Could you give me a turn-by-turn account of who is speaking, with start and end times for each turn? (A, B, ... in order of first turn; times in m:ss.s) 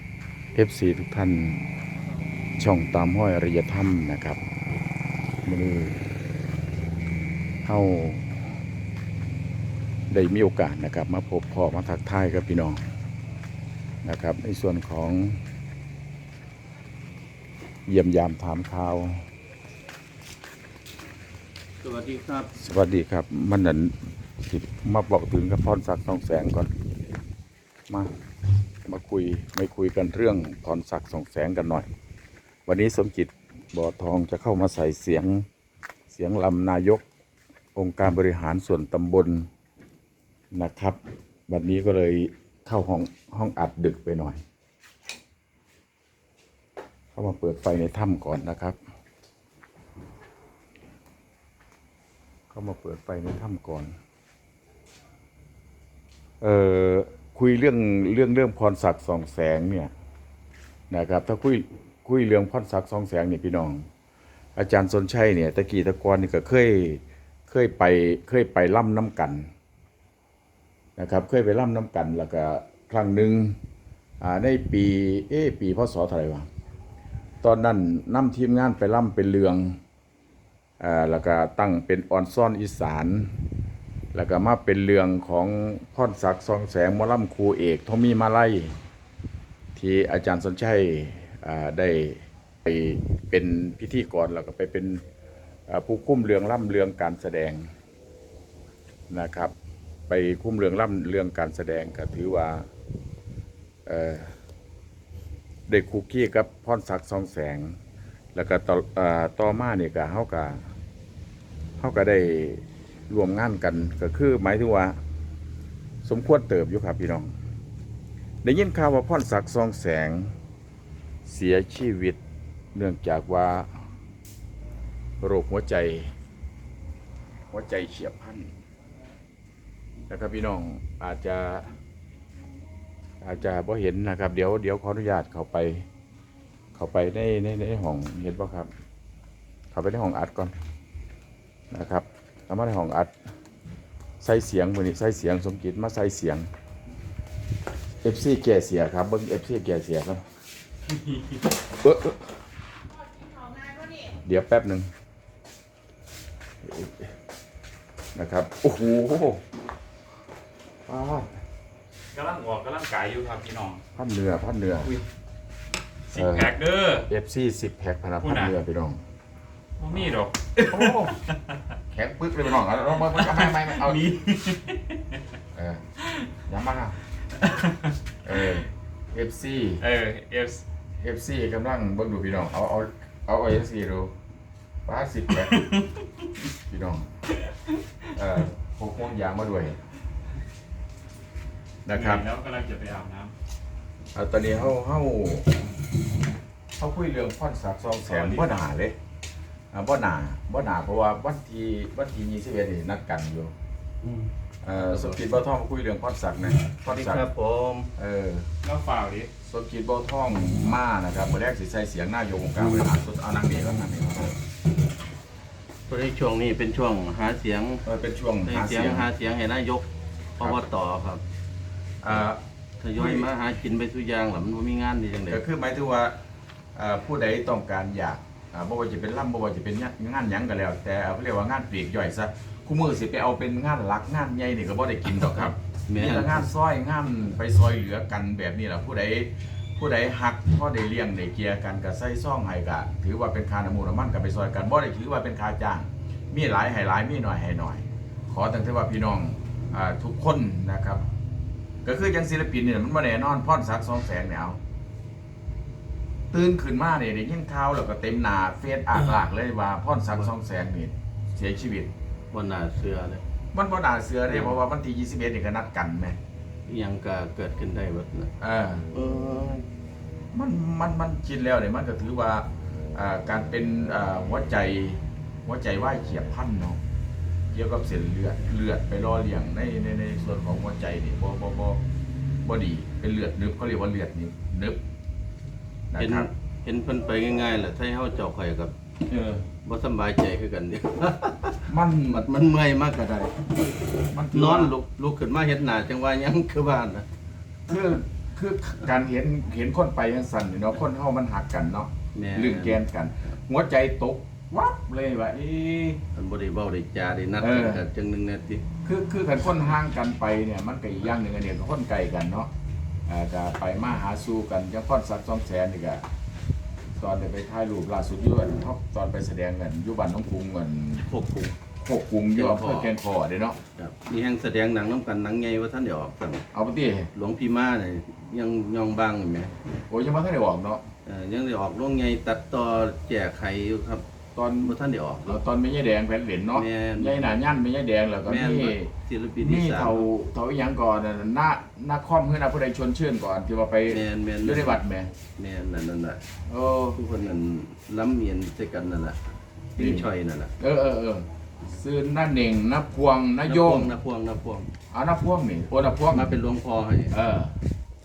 0:00.5-0:01.7 A
0:02.6-0:04.4 A
0:05.4-0:06.0 A
0:07.6-0:08.4 A
0:10.1-0:12.8 A
0:14.0-0:15.4 A
0:17.9-0:19.2 A
0:21.8-0:22.5 B
0:22.6-0:26.7 A
0:28.8-0:31.9 A
0:32.7-0:35.5 A
0:36.1-0:37.0 A
0:37.8-0:39.5 A
0:40.5-0:44.4 A
0:47.2-0:48.8 A
0:52.5-0:53.9 A
0:56.4-0:59.9 A
1:00.9-1:03.9 A
1:04.6-1:09.5 A
1:11.0-1:13.6 A
1:14.2-1:16.5 A
1:17.4-1:19.8 A
1:20.8-1:23.3 A
1:24.1-1:28.7 A
1:29.8-1:35.0 A
1:35.7-1:37.7 A
1:39.1-1:39.5 A
1:40.1-1:42.7 A
1:43.9-1:44.3 A
1:45.7-1:47.8 A
1:48.3-1:50.6 A
1:51.8-1:55.0 A
1:56.0-1:57.3 A
1:58.4-2:00.3 A
2:01.3-2:02.2 A
2:02.7-2:03.7 A
2:05.2-2:06.1 A
2:07.5-2:08.5 A
2:10.1-2:11.7 A
2:13.2-2:15.9 A
2:16.8-2:18.7 A
2:19.7-2:20.5 A
2:21.7-2:23.1 A
2:24.2-2:26.5 A
2:28.0-2:30.2 A
2:31.7-2:32.3 A
2:33.9-2:34.9 A
2:36.6-2:37.1 A
2:38.2-2:39.4 A
2:40.9-2:41.3 A
2:42.1-2:43.8 C
2:44.0-2:44.9 A
2:46.1-2:47.1 C
2:46.1-2:46.5 A
2:47.1-2:49.0 A
2:48.2-2:48.6 C
2:49.8-2:51.6 C
2:50.7-2:51.2 A
2:51.9-2:54.1 A
2:53.0-2:55.2 C
2:55.5-2:55.8 A
2:56.5-2:57.0 A
2:57.4-2:58.6 C
2:58.2-2:59.8 A
2:59.8-3:00.6 C
3:01.0-3:04.1 A
3:04.9-3:05.7 A
3:05.4-3:05.9 C
3:06.7-3:07.1 A
3:07.5-3:07.9 C
3:08.2-3:09.8 A
3:11.9-3:12.3 A
3:11.9-3:13.3 C
3:14.2-3:15.5 A
3:16.8-3:19.0 A
3:18.1-3:18.5 C
3:19.7-3:23.5 A
3:24.0-3:25.2 B
3:24.6-3:27.2 A
3:26.9-3:27.9 B
3:28.0-3:28.5 A
3:28.6-3:29.3 C
3:29.4-3:34.4 A
3:35.9-3:37.8 B
3:37.8-3:39.1 A
3:38.4-3:39.9 B
3:40.4-3:41.2 B
3:42.0-3:42.4 A
3:42.8-3:45.4 B
3:43.0-3:43.3 A
3:45.3-3:46.2 A
3:46.7-4:11.0 A
3:55.9-3:56.5 B
4:11.8-4:14.6 A
4:16.3-4:21.9 A
4:22.3-4:23.2 B
4:23.5-4:26.2 A
4:24.3-4:24.6 B
4:26.7-4:28.3 B
4:28.4-4:28.9 A
4:28.9-4:29.6 B
4:30.3-4:36.8 A
4:37.5-4:41.8 A
4:42.4-4:44.8 A
4:45.9-4:46.3 A
4:46.0-4:48.7 B
4:49.1-4:49.4 A
4:49.6-4:53.5 B
4:51.7-4:52.3 A
4:54.1-4:54.7 A
4:54.3-4:57.1 B
4:57.7-5:06.0 A
5:02.1-5:03.4 B
5:06.1-5:08.6 B
5:07.4-5:07.8 A
5:08.8-5:12.5 A
5:13.1-5:16.0 A
5:17.0-5:21.1 A
5:21.0-5:21.6 B
5:21.8-5:23.6 A
5:22.3-5:22.9 B
5:23.8-5:26.5 B
5:26.5-5:27.1 A
5:27.1-5:29.5 B
5:29.9-5:30.8 A
5:31.0-5:34.0 B
5:34.4-5:45.1 A
5:34.6-5:35.4 B
5:36.5-5:37.4 B
5:38.2-5:40.1 B
5:43.9-5:44.8 B
5:45.4-5:46.2 B
5:46.5-5:47.0 A
5:47.0-5:49.2 B
5:49.8-5:50.5 B
5:49.8-5:50.1 A
5:50.6-5:53.9 A
5:53.4-5:54.7 B
5:54.9-5:56.4 A
5:56.1-5:57.2 B
5:57.1-5:57.6 A